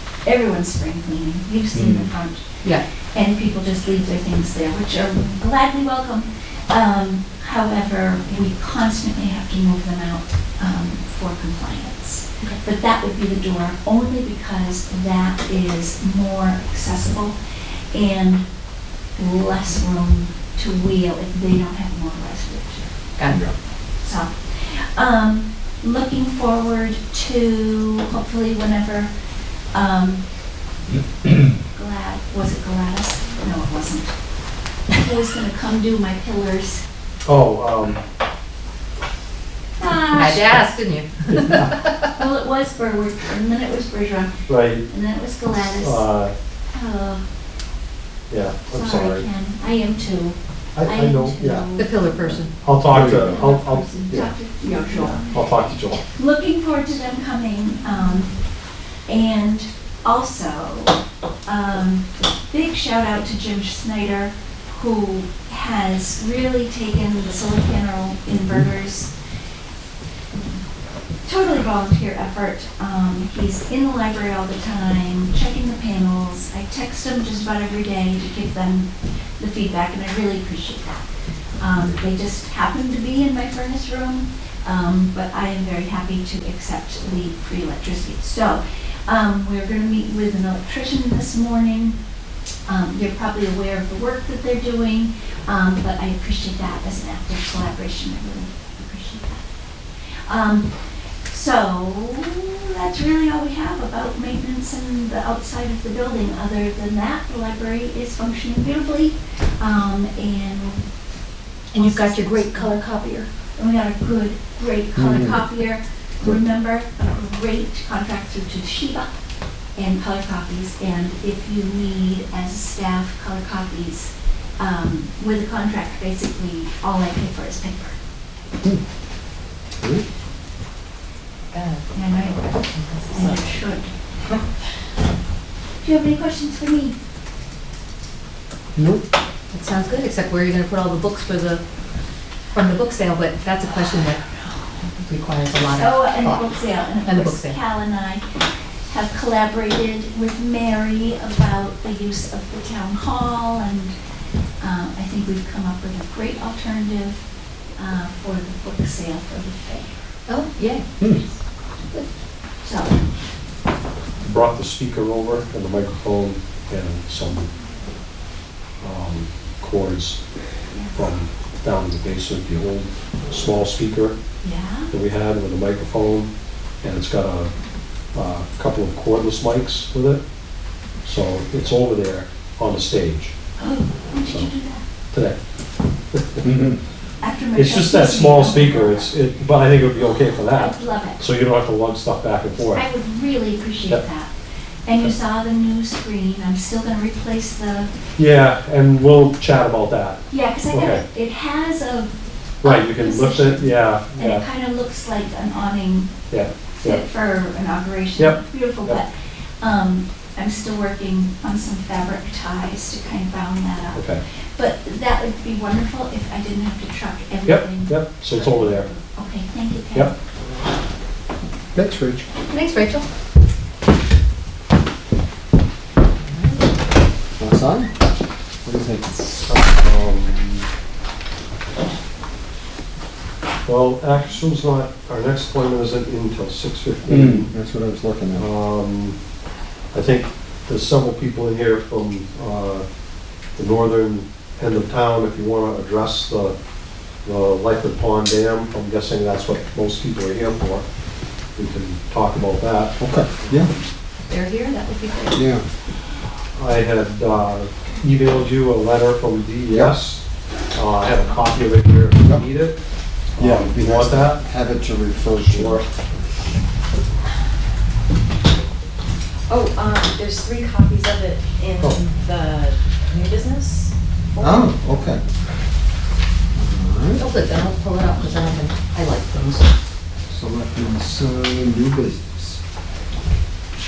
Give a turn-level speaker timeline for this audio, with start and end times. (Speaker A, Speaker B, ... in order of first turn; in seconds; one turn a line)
Speaker A: 0.2-17.4
Speaker A: 17.9-18.4
Speaker A: 19.1-22.9
Speaker B: 23.2-23.4
Speaker C: 23.3-23.5
Speaker A: 24.0-29.1
Speaker A: 29.7-30.2
Speaker A: 31.7-34.1
Speaker A: 34.9-36.8
Speaker D: 37.2-38.0
Speaker A: 39.8-40.6
Speaker B: 40.0-41.9
Speaker D: 41.3-41.7
Speaker A: 42.1-46.0
Speaker D: 44.5-44.9
Speaker D: 45.8-46.3
Speaker A: 46.7-47.2
Speaker D: 48.3-49.2
Speaker A: 48.7-55.3
Speaker D: 50.7-51.6
Speaker B: 51.8-52.5
Speaker D: 52.6-53.9
Speaker C: 52.9-53.4
Speaker D: 55.1-56.0
Speaker A: 56.1-58.3
Speaker A: 59.1-69.1
Speaker A: 71.2-81.1
Speaker A: 81.6-92.0
Speaker A: 92.7-99.5
Speaker A: 100.2-100.7
Speaker A: 101.3-110.9
Speaker B: 111.7-113.2
Speaker A: 111.7-119.1
Speaker C: 115.0-115.4
Speaker A: 119.8-128.0
Speaker E: 131.5-131.8
Speaker A: 131.9-132.5
Speaker E: 132.7-133.2
Speaker A: 133.1-133.9
Speaker A: 135.8-136.9
Speaker C: 138.8-139.1
Speaker B: 139.5-141.6
Speaker B: 142.5-144.2
Speaker A: 144.0-144.7
Speaker B: 144.9-146.5
Speaker A: 145.7-148.2
Speaker B: 147.0-147.6
Speaker A: 148.9-153.9
Speaker A: 154.6-157.2
Speaker A: 157.8-160.0
Speaker B: 160.3-161.1
Speaker A: 162.6-163.0
Speaker D: 164.2-167.5
Speaker D: 168.8-170.3
Speaker A: 170.7-171.0
Speaker D: 170.9-174.2
Speaker A: 174.4-174.9
Speaker D: 174.9-177.5
Speaker D: 178.1-180.2
Speaker D: 181.0-183.3
Speaker A: 183.6-184.8
Speaker D: 185.1-185.4
Speaker D: 186.1-186.7
Speaker A: 187.2-189.1
Speaker D: 187.5-192.8
Speaker A: 190.5-191.2
Speaker A: 192.7-194.3
Speaker A: 194.8-197.9
Speaker D: 198.2-201.0
Speaker A: 200.3-206.1
Speaker D: 202.6-204.4
Speaker D: 206.3-207.0
Speaker A: 206.8-209.1
Speaker D: 208.2-209.0
Speaker A: 209.6-220.1
Speaker D: 213.9-214.2
Speaker D: 217.4-218.9
Speaker C: 221.7-222.2
Speaker B: 222.5-223.1
Speaker C: 227.4-227.9
Speaker C: 228.6-229.3
Speaker D: 229.4-230.7
Speaker D: 233.6-237.5
Speaker C: 237.1-238.5
Speaker D: 238.3-239.2
Speaker D: 239.9-242.9
Speaker D: 243.5-246.6
Speaker D: 247.2-250.9
Speaker D: 251.5-253.0
Speaker C: 253.0-253.7
Speaker B: 254.3-255.4
Speaker C: 255.3-255.6
Speaker D: 256.5-262.8
Speaker C: 259.7-260.1
Speaker C: 262.2-262.4
Speaker D: 263.4-264.4
Speaker C: 263.4-265.8
Speaker D: 265.3-265.9
Speaker E: 269.5-274.6
Speaker C: 274.4-275.2
Speaker C: 276.5-277.2
Speaker B: 277.1-279.7
Speaker C: 280.3-282.6